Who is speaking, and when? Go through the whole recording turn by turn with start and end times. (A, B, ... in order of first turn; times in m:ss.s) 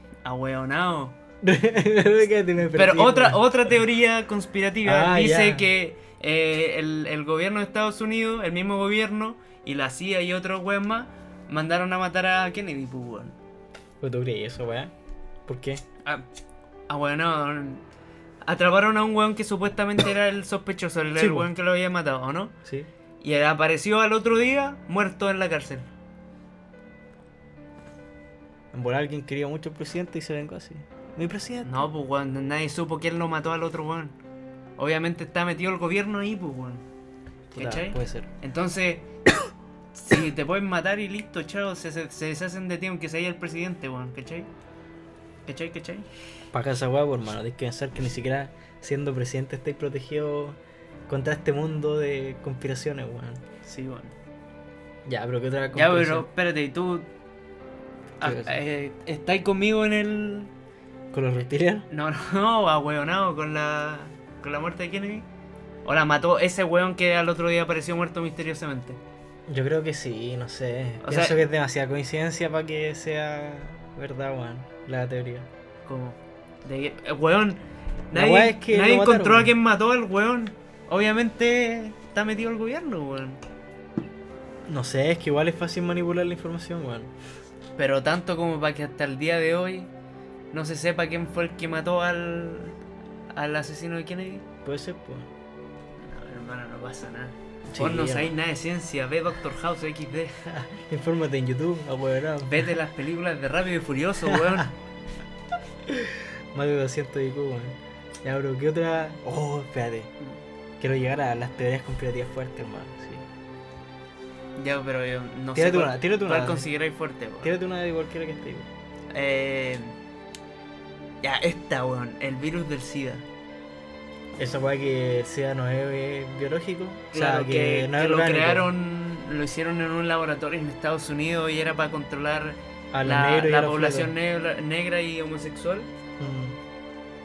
0:00.2-0:01.2 A
0:01.4-0:03.4 B
0:02.7-0:13.4 A
0:04.8-0:05.7 B
0:14.0-0:14.9 B
0:15.4-0:15.8 B
0:16.9-0:17.8 A
0:18.4-0:22.6 A
0:21.2-0:21.5 B
0:23.2-0:25.9 A
0:28.7-0:31.9 B
0:31.6-0:34.2 A
0:34.8-0:36.8 A
0:37.5-0:38.3 B
0:37.5-0:39.1 A
0:39.9-0:44.5 A
0:45.4-0:46.1 A
0:46.5-0:53.4 B
0:53.6-0:54.1 A
0:55.0-0:56.3 B
0:55.7-0:57.1 A
0:58.2-0:58.6 B
0:58.2-1:00.5 A
1:01.1-1:01.9 B
1:01.9-1:05.3 A
1:05.8-1:09.0 A
1:09.5-1:15.5 B
1:11.0-1:11.4 A
1:15.8-1:23.4 A
1:18.1-1:19.5 B
1:24.6-1:27.1 B
1:27.8-1:29.9 A
1:30.5-1:32.8 A
1:33.3-1:34.4 A
1:34.6-1:35.3 B
1:36.0-1:40.5 A
1:37.7-1:38.3 B
1:40.5-1:42.7 B
1:42.4-1:44.7 A
1:44.2-1:44.6 B
1:45.9-1:50.1 B
1:50.8-1:53.3 B
1:54.6-1:57.6 A
1:55.5-1:56.7 B
1:57.4-1:58.7 B
1:59.1-2:00.0 A
2:01.2-2:03.2 A
2:04.4-2:08.7 B
2:07.1-2:15.9 A
2:12.9-2:14.1 B
2:16.2-2:16.6 B